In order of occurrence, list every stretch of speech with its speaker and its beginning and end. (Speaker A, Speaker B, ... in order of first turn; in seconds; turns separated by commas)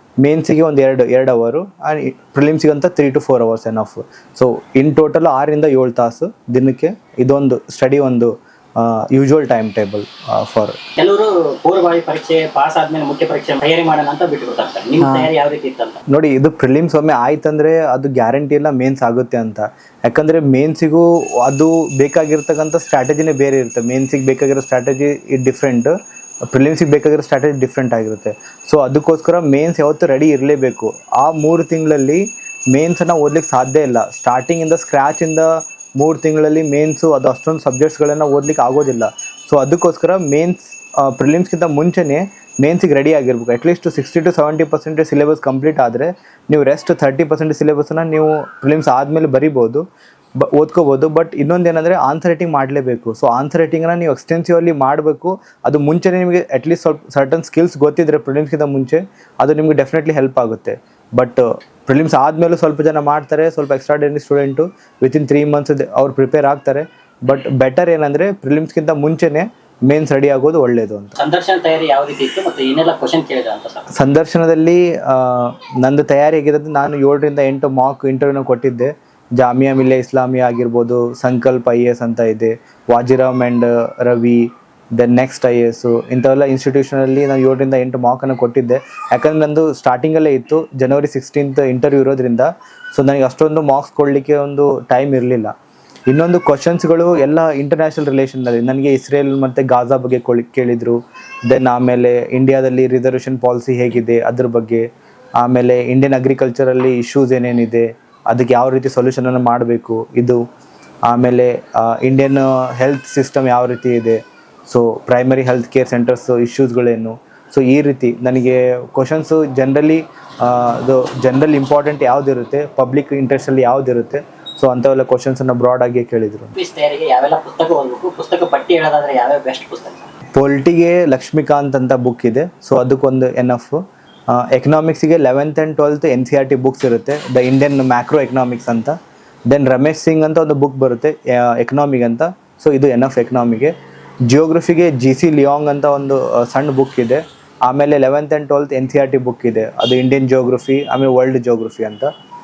Speaker A: 0.2-10.8, Speaker B: 11.0-16.0, Speaker A: 15.0-15.3, Speaker A: 16.1-25.9, Speaker A: 26.5-49.8, Speaker A: 50.4-71.2, Speaker B: 71.2-73.9, Speaker A: 73.9-95.5, Speaker A: 96.1-104.8, Speaker A: 105.4-110.4, Speaker A: 111.1-126.5, Speaker B: 126.5-130.1, Speaker A: 130.3-138.9, Speaker A: 139.5-143.7, Speaker A: 144.3-152.1